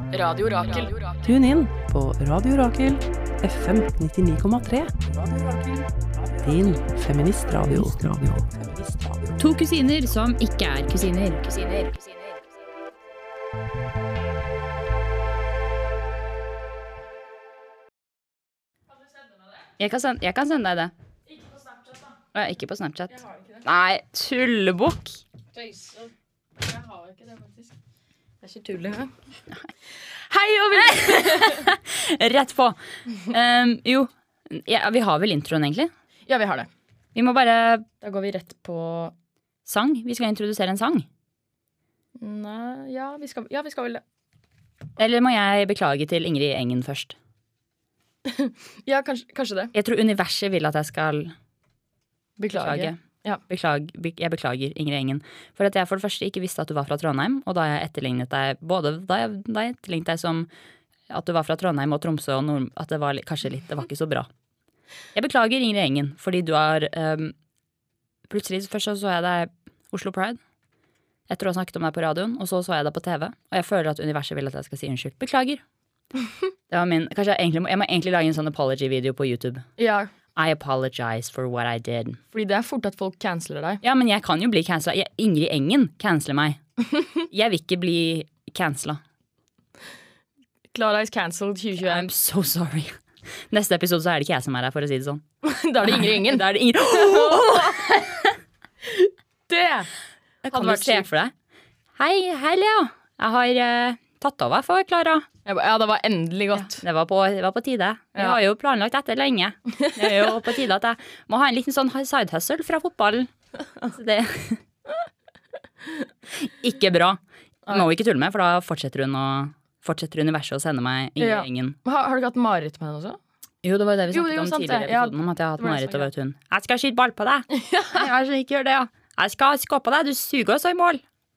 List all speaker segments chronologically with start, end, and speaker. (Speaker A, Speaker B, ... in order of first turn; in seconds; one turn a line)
Speaker A: 0.1-1.2
Speaker B: 1.2-9.4
Speaker C: 9.4-12.1
Speaker C: 19.8-20.9
Speaker A: 21.3-22.1
Speaker C: 22.3-25.2
Speaker A: 23.1-23.6
Speaker A: 25.5-26.1
Speaker A: 26.6-27.7
Speaker A: 28.4-29.1
Speaker A: 30.3-31.6
Speaker C: 30.7-35.9
Speaker A: 36.3-36.7
Speaker C: 37.1-37.9
Speaker A: 38.0-39.1
Speaker C: 39.6-41.0
Speaker A: 42.2-44.0
Speaker C: 45.0-47.1
Speaker A: 48.2-49.7
Speaker C: 49.7-51.3
Speaker A: 52.4-53.4
Speaker C: 52.5-60.5
Speaker C: 61.1-64.3
Speaker C: 65.1-67.3
Speaker C: 68.3-70.4
Speaker C: 71.3-75.6
Speaker C: 76.7-79.6
Speaker A: 79.8-80.1
Speaker C: 80.3-82.2
Speaker A: 82.3-83.8
Speaker C: 83.8-86.6
Speaker C: 87.3-89.0
Speaker A: 90.7-92.1
Speaker C: 91.8-92.9
Speaker C: 93.5-95.2
Speaker A: 95.4-98.0
Speaker C: 95.8-98.3
Speaker A: 98.9-99.9
Speaker C: 100.4-101.3
Speaker A: 100.4-101.1
Speaker C: 102.0-105.3
Speaker A: 105.4-106.8
Speaker C: 106.5-113.3
Speaker C: 113.9-114.6
Speaker C: 116.4-121.8
Speaker A: 121.2-123.2
Speaker C: 123.6-131.0
Speaker A: 124.1-126.1
Speaker A: 127.5-128.1